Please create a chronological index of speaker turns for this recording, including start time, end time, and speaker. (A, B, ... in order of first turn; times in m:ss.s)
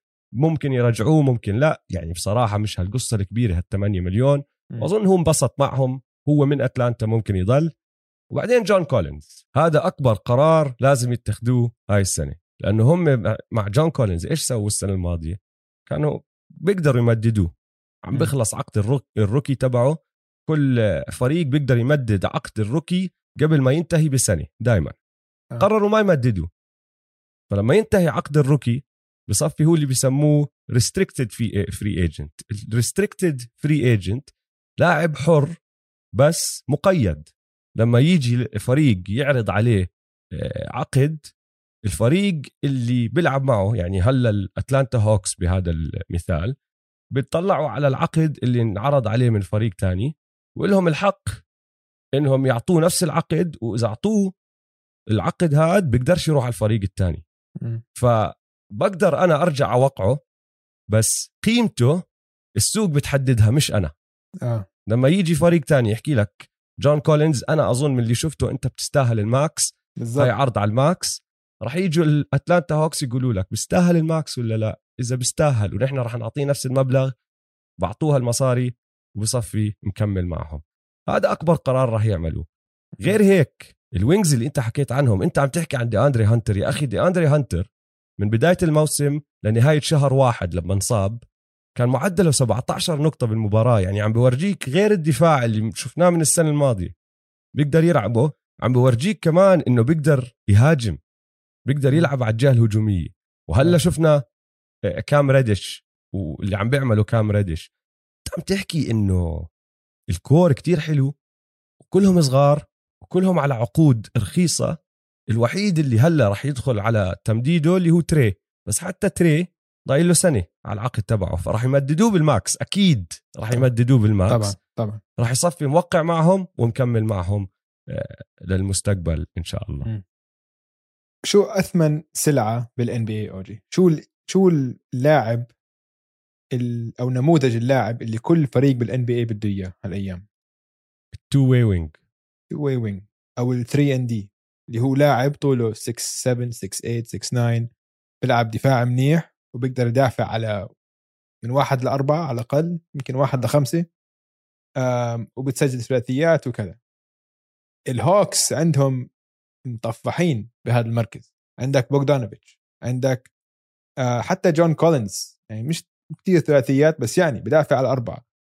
0:00.4-0:07.7 A
0:08.3-0:17.5 A
0:18.0-0:25.0 A
0:25.6-0:26.5 A
0:27.5-0:34.3 A
0:34.8-0:35.6 A
0:36.2-0:41.3 A
0:41.9-0:46.5 A
0:47.1-0:51.4 A
0:52.2-0:54.3 A
0:55.1-0:57.2 A
0:58.0-1:00.2 A
1:00.9-1:02.0 A
1:02.6-1:03.9 A
1:04.9-1:17.1 A
1:10.0-1:10.3 B
1:17.8-1:22.5 A
1:23.0-1:31.2 A
1:31.8-1:36.9 A
1:37.6-1:41.0 A
1:41.7-1:44.2 A
1:45.0-1:47.7 A
1:48.3-1:49.5 A
1:50.1-1:51.1 A
1:51.8-1:54.8 A
1:55.3-2:04.6 A
2:04.3-2:05.0 B
2:05.2-2:09.9 A
2:11.3-2:15.5 B
2:16.5-2:20.2 B
2:21.1-2:21.9 A
2:22.5-2:27.7 B
2:28.2-2:30.7 B
2:31.4-2:33.9 B
2:34.8-2:36.8 B
2:37.9-2:39.1 B
2:39.7-2:43.3 B
2:44.0-2:48.2 B